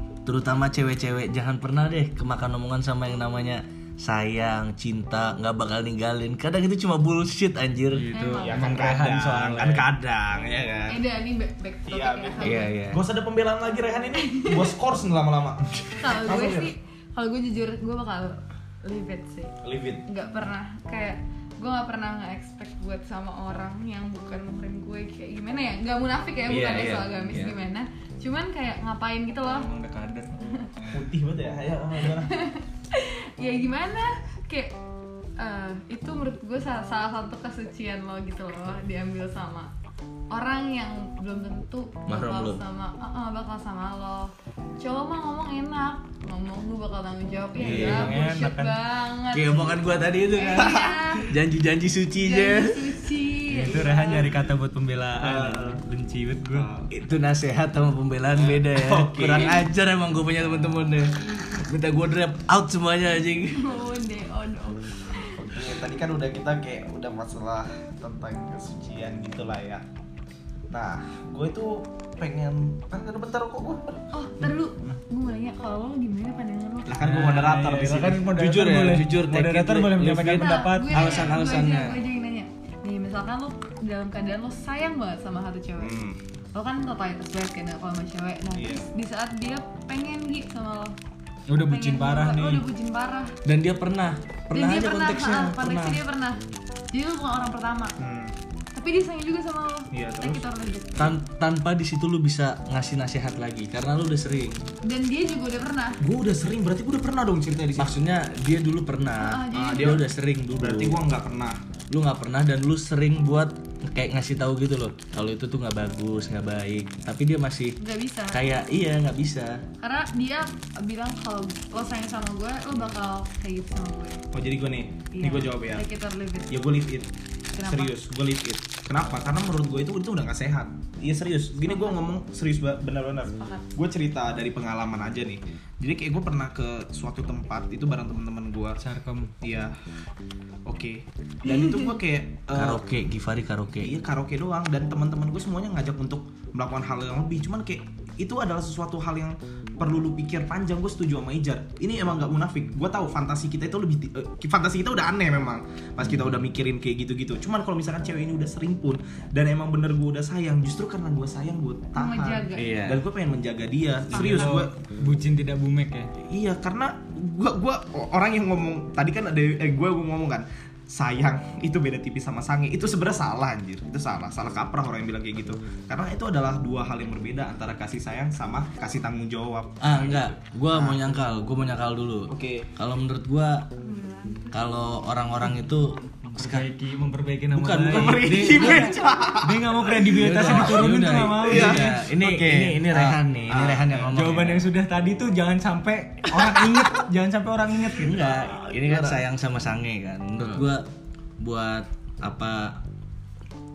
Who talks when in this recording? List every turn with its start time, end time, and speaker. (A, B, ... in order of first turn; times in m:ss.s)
0:00.3-0:08.1 A
0:07.9-0:09.9 B
0:08.1-0:08.8 C
0:08.4-0:11.0 D
0:10.9-0:12.8 C
0:11.9-0:16.7 D
0:12.4-0:13.0 A
0:14.2-0:14.7 C
0:16.0-0:29.7 C
0:19.6-0:20.0 D
0:26.5-0:27.6 A
0:29.5-0:30.5 B
0:30.4-0:30.7 C
0:30.9-0:32.4 D
0:32.0-0:34.8 C
0:35.4-0:39.7 C
0:40.3-0:51.3 C
0:42.1-0:42.6 A
0:47.6-0:48.2 A
0:47.6-0:48.8 B
0:47.8-0:48.1 D
0:49.3-0:52.9 A
0:52.2-0:54.3 C
0:53.5-0:56.7 B
0:55.2-0:55.8 D
0:56.5-0:56.9 D
0:56.9-1:03.7 A
0:58.3-0:59.7 D
1:03.5-1:05.7 C
1:05.3-1:09.9 D
1:10.7-1:15.0 D
1:14.1-1:17.0 C
1:16.9-1:18.4 D
1:17.0-1:21.2 B
1:18.4-1:22.0 A
1:20.4-1:31.0 C
1:25.8-1:26.2 D
1:28.5-1:28.9 D
1:31.5-1:32.6 B
1:31.6-1:33.4 C
1:33.4-1:36.0 A
1:34.5-1:38.0 C
1:38.0-1:38.4 D
1:38.8-1:41.2 C
1:39.9-1:40.4 D
1:41.0-1:44.6 A
1:44.8-1:46.0 C
1:46.0-1:48.0 D
1:47.8-1:51.0 A
1:49.2-1:50.0 C
1:49.6-1:51.6 D
1:51.9-1:57.8 A
1:57.8-1:58.5 C
1:58.3-1:59.6 A
1:59.8-2:04.2 C
2:04.3-2:05.8 D
2:05.1-2:06.7 C
2:06.5-2:07.1 D
2:07.5-2:08.0 C
2:07.6-2:18.8 D
2:11.7-2:12.0 C
2:13.4-2:13.7 C
2:18.8-2:19.3 B
2:19.4-2:19.8 D
2:20.7-2:22.8 D
2:22.5-2:24.0 A
2:23.8-2:44.7 D
2:42.0-2:42.7 C
2:42.6-2:43.0 A
2:44.1-2:46.1 B
2:46.2-3:01.0 D
2:59.8-3:03.7 A
3:02.3-3:02.7 D
3:03.8-3:04.6 C
3:04.5-3:06.7 A
3:06.3-3:12.3 B
3:07.6-3:08.9 A
3:07.6-3:10.9 D
3:10.2-3:14.7 A
3:11.4-3:14.2 D
3:14.1-3:18.4 B
3:16.4-3:16.9 D
3:18.0-3:19.2 D
3:18.0-3:20.9 A
3:21.4-3:22.8 A